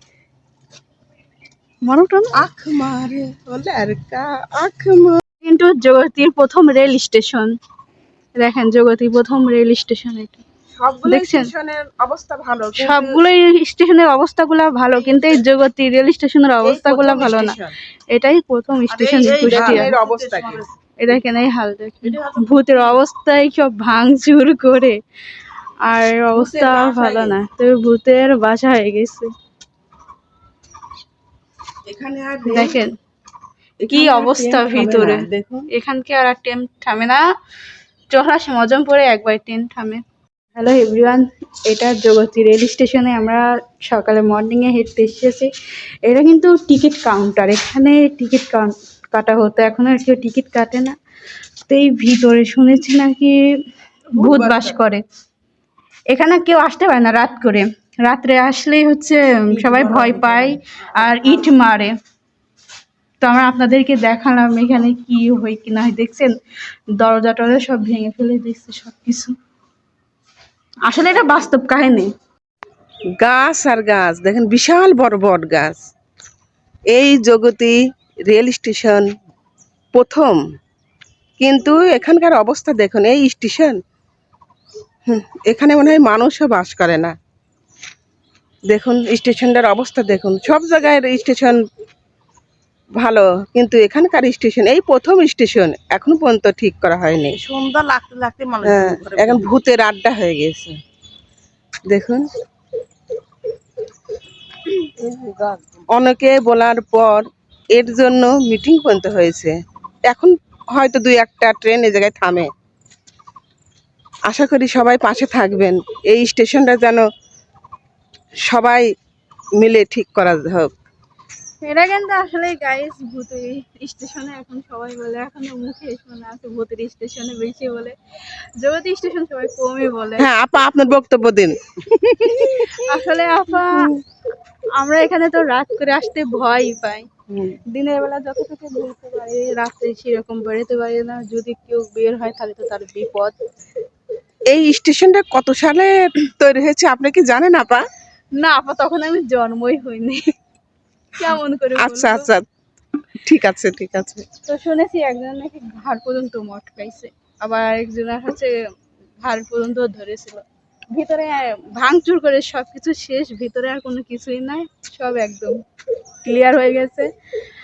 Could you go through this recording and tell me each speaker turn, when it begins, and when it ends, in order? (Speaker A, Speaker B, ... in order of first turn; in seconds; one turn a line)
Speaker A: 1.9-2.4
Speaker B: 2.4-5.2
Speaker A: 5.4-7.5
Speaker A: 8.4-10.4
Speaker B: 10.8-13.2
Speaker A: 11.1-11.5
Speaker A: 12.8-17.6
Speaker B: 16.6-17.8
Speaker A: 18.1-19.9
Speaker C: 18.9-20.7
Speaker B: 19.4-20.6
Speaker A: 21.0-25.0
Speaker C: 22.1-22.8
Speaker A: 25.9-29.3
Speaker B: 26.3-27.4
Speaker B: 31.9-32.8
Speaker A: 32.5-32.9
Speaker B: 33.8-35.7
Speaker A: 33.9-37.2
Speaker A: 38.1-40.0
Speaker A: 40.6-45.5
Speaker A: 46.1-51.0
Speaker A: 51.7-53.4
Speaker B: 54.1-54.8
Speaker A: 54.2-55.0
Speaker A: 56.1-61.9
Speaker B: 59.5-60.5
Speaker A: 63.2-66.3
Speaker A: 67.0-69.3
Speaker A: 70.9-72.1
Speaker B: 73.2-75.8
Speaker B: 76.9-79.1
Speaker B: 79.9-80.4
Speaker B: 81.4-83.8
Speaker B: 85.1-87.1
Speaker B: 88.7-91.6
Speaker B: 93.0-97.4
Speaker C: 97.3-99.5
Speaker B: 98.7-100.7
Speaker B: 101.9-102.2
Speaker C: 105.0-105.8
Speaker B: 105.9-109.5
Speaker B: 110.1-112.5
Speaker B: 114.3-117.0
Speaker B: 118.5-118.9
Speaker B: 119.6-120.7
Speaker A: 121.6-128.0
Speaker A: 128.6-130.3
Speaker B: 130.2-132.8
Speaker A: 132.8-133.9
Speaker B: 133.7-134.0
Speaker A: 134.8-137.1
Speaker A: 137.7-143.3
Speaker B: 144.5-147.8
Speaker A: 148.4-150.2
Speaker A: 151.2-152.3
Speaker B: 151.8-152.5
Speaker B: 153.2-154.3
Speaker A: 154.5-158.6
Speaker A: 159.2-165.6
Speaker A: 166.2-167.1